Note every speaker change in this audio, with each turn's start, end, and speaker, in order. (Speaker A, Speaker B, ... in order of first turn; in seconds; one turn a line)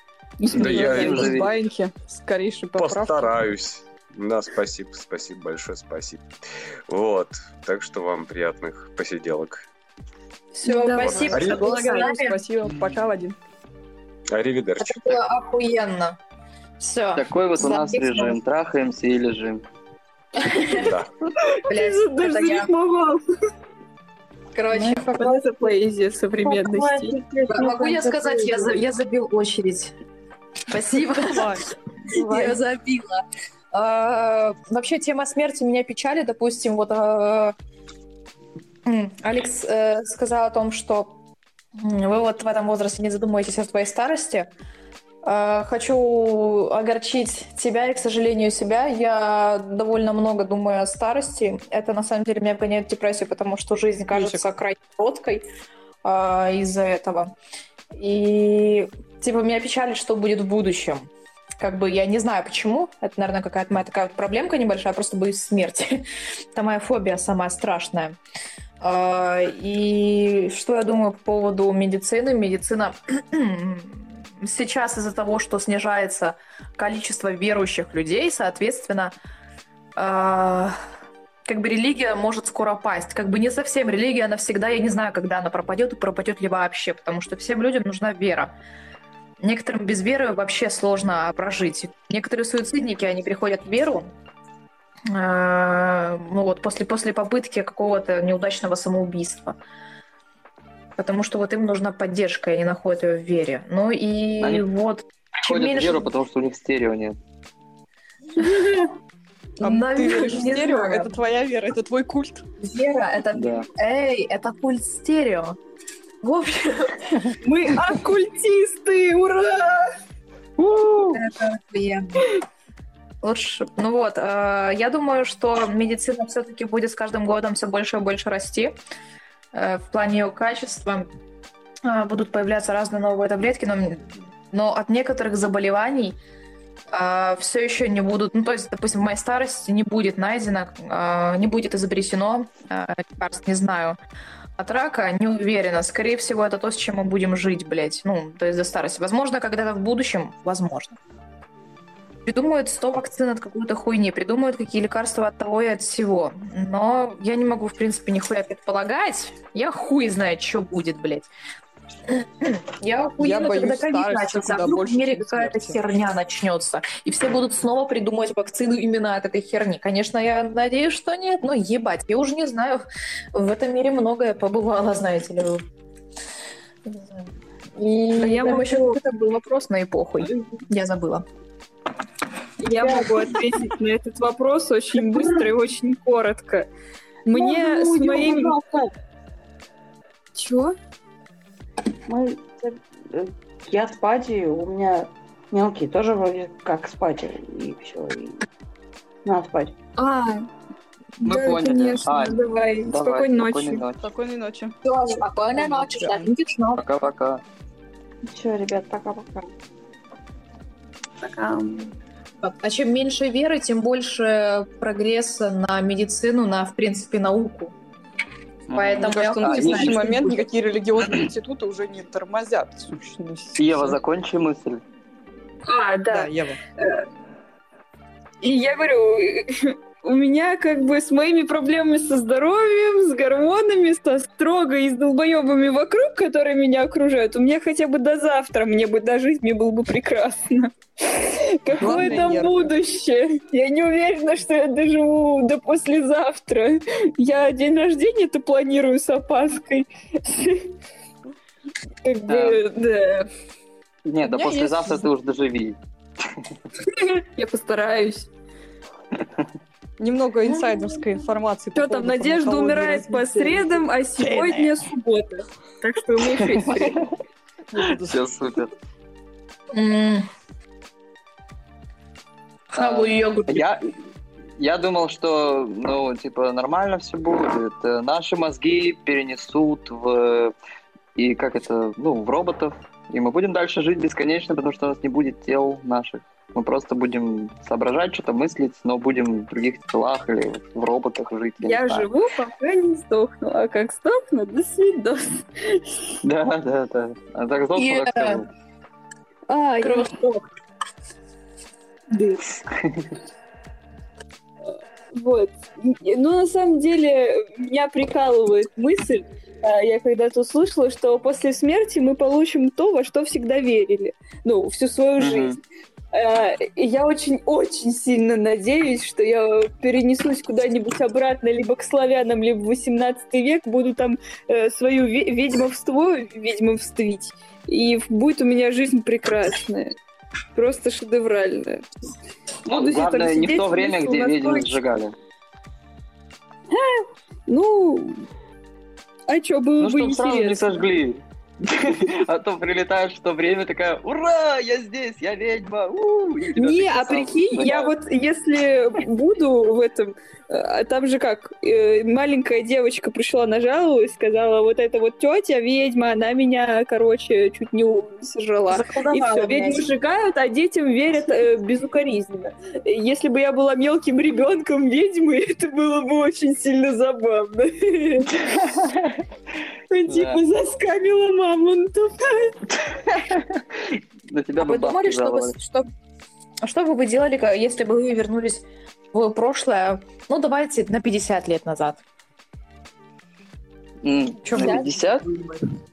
Speaker A: 0.5-0.8
Speaker B: 0.5-1.5
Speaker C: 0.6-1.5
Speaker D: 0.6-3.4
Speaker C: 2.8-6.2
Speaker C: 6.9-9.7
Speaker A: 10.6-11.4
Speaker E: 10.6-12.4
Speaker C: 11.0-11.7
Speaker D: 11.1-13.3
Speaker C: 14.3-15.2
Speaker E: 14.8-16.2
Speaker E: 16.8-18.4
Speaker B: 17.1-19.6
Speaker E: 20.4-21.0
Speaker C: 20.7-21.1
Speaker A: 21.6-23.2
Speaker E: 21.7-22.7
Speaker E: 24.5-25.4
Speaker A: 24.8-27.1
Speaker E: 26.5-26.9
Speaker F: 26.5-28.7
Speaker E: 27.5-29.9
Speaker E: 30.7-37.5
Speaker D: 31.1-31.6
Speaker E: 38.9-41.2
Speaker E: 41.8-44.5
Speaker E: 45.2-55.5
Speaker D: 54.1-54.4
Speaker E: 56.0-57.3
Speaker E: 57.9-61.1
Speaker E: 61.6-66.0
Speaker E: 66.5-68.2
Speaker E: 68.8-79.2
Speaker E: 80.0-80.8
Speaker E: 81.5-88.5
Speaker E: 89.4-94.1
Speaker E: 95.1-99.6
Speaker E: 101.0-106.1
Speaker B: 104.4-104.7
Speaker B: 105.4-107.2
Speaker E: 108.4-108.7
Speaker E: 109.6-111.2
Speaker D: 109.6-112.4
Speaker A: 110.0-110.7
Speaker E: 112.6-115.6
Speaker B: 113.3-113.7
Speaker E: 116.2-117.0
Speaker A: 117.4-119.9
Speaker E: 121.1-122.3
Speaker E: 123.2-128.8
Speaker E: 129.5-131.1
Speaker E: 131.8-136.2
Speaker E: 136.9-144.0
Speaker E: 144.6-151.0
Speaker E: 152.3-161.3
Speaker E: 162.1-175.6
Speaker D: 163.2-165.8
Speaker E: 176.8-177.2
Speaker E: 177.8-181.2
Speaker A: 178.1-179.0
Speaker A: 182.6-186.7
Speaker A: 187.3-188.6
Speaker F: 187.3-188.9
Speaker A: 190.4-190.8
Speaker F: 192.1-198.4
Speaker F: 199.3-199.7
Speaker A: 200.0-200.5
Speaker B: 201.2-204.1
Speaker A: 201.2-203.8
Speaker D: 204.0-204.7
Speaker E: 204.8-206.8
Speaker D: 205.6-206.3
Speaker B: 206.8-207.4
Speaker F: 208.3-209.5
Speaker F: 211.2-211.9
Speaker E: 212.4-217.8
Speaker E: 218.7-220.5
Speaker B: 218.7-220.1
Speaker D: 219.0-224.0
Speaker B: 223.6-224.8
Speaker A: 225.7-227.1
Speaker D: 226.1-226.6
Speaker A: 228.4-250.7
Speaker D: 241.7-242.7
Speaker A: 252.1-253.3
Speaker B: 252.3-252.6
Speaker B: 254.1-255.8
Speaker D: 254.2-255.0
Speaker A: 256.9-258.3
Speaker D: 260.0-264.8
Speaker E: 260.5-261.0
Speaker A: 261.8-267.0
Speaker B: 266.6-267.0
Speaker D: 267.7-268.2
Speaker B: 267.8-268.7
Speaker E: 269.7-270.3
Speaker E: 272.7-273.6
Speaker B: 272.8-273.8
Speaker B: 274.6-280.5
Speaker B: 281.2-292.1
Speaker A: 291.6-295.9
Speaker B: 296.2-298.5
Speaker E: 297.8-298.4
Speaker A: 299.5-300.2
Speaker E: 299.8-300.4
Speaker B: 302.8-303.0
Speaker A: 305.1-315.6
Speaker B: 315.2-315.6
Speaker A: 316.1-329.9
Speaker A: 330.6-331.8
Speaker A: 332.7-334.8
Speaker B: 332.7-335.1
Speaker A: 336.7-338.2
Speaker A: 339.3-340.9
Speaker B: 339.8-347.9
Speaker A: 346.6-368.5
Speaker E: 358.7-359.9
Speaker B: 368.6-369.1
Speaker A: 369.9-372.6
Speaker B: 370.1-370.4
Speaker B: 373.1-375.6
Speaker E: 374.6-375.9
Speaker E: 376.6-382.0
Speaker B: 384.0-385.2
Speaker E: 384.4-385.6